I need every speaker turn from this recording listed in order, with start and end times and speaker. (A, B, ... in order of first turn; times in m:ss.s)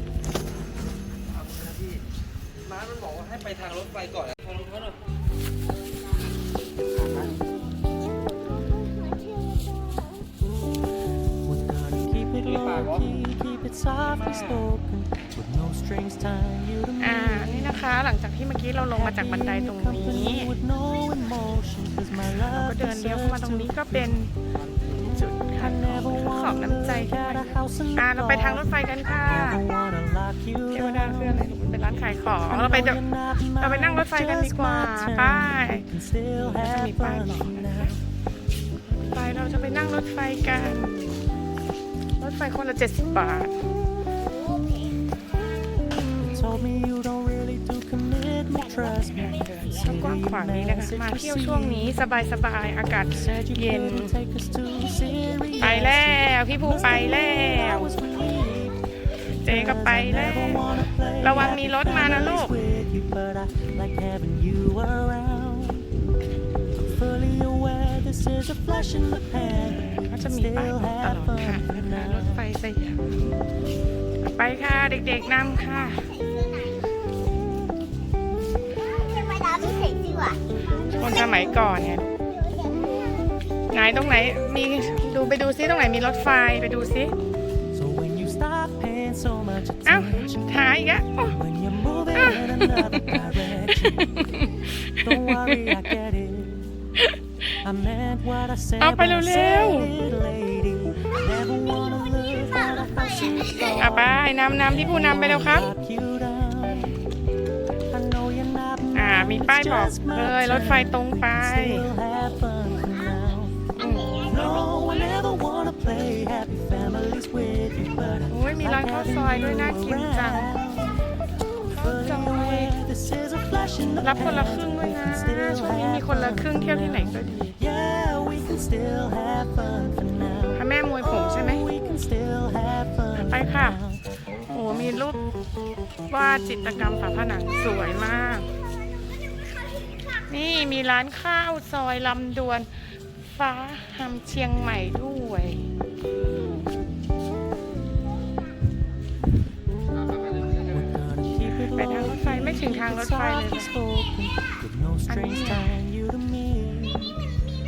0:03.1-0:04.6 A
0:11.5-0:17.5 B
0:12.5-0:13.0 A
0:17.0-0:20.6 C
0:19.0-0:23.8 B
0:22.4-0:24.3 C
0:25.0-0:29.7 C
0:25.6-0:28.6 B
0:29.4-0:31.3 B
0:30.7-0:33.0 C
0:32.5-0:37.9 B
0:33.6-0:38.0 C
0:38.8-0:41.1 C
0:42.2-0:43.6 C
0:44.5-0:44.9 D
0:46.2-0:51.6 B
0:49.1-0:54.2 C
0:53.1-0:56.1 B
0:55.6-0:58.0 C
0:56.6-0:58.7 B
0:59.4-1:02.6 C
0:59.5-1:05.8 B
1:07.0-1:09.7 B
1:09.5-1:13.2 C
1:10.4-1:12.2 B
1:14.2-1:16.1 C
1:15.4-1:16.9 D
1:18.8-1:21.6 D
1:21.0-1:22.0 C
1:22.2-1:23.3 D
1:23.7-1:27.1 C
1:27.8-1:30.3 B
1:29.8-1:31.4 C
1:31.4-1:34.0 B
1:32.1-1:33.2 C
1:33.8-1:35.9 C
1:35.1-1:36.7 B
1:37.6-1:44.0 B
1:38.8-1:39.9 C
1:41.1-1:43.8 D
1:43.7-1:45.7 C
1:44.8-1:46.9 B
1:48.2-1:53.5 B
1:48.9-1:51.9 C
1:52.2-1:55.1 D
1:53.8-1:55.0 C
1:54.3-2:00.8 B
1:58.3-2:00.5 C
2:01.7-2:02.8 C
2:01.8-2:04.7 B
2:04.0-2:07.6 C
2:05.2-2:06.9 B
2:07.7-2:10.5 B
2:10.5-2:11.6 C
2:11.4-2:13.8 B
2:13.2-2:13.8 C
2:14.5-2:15.2 C
2:16.1-2:18.5 C
2:19.1-2:20.0 D
2:20.3-2:22.7 C
2:23.2-2:25.7 C
2:30.8-2:37.0 B
2:31.7-2:33.7 C
2:35.1-2:35.7 C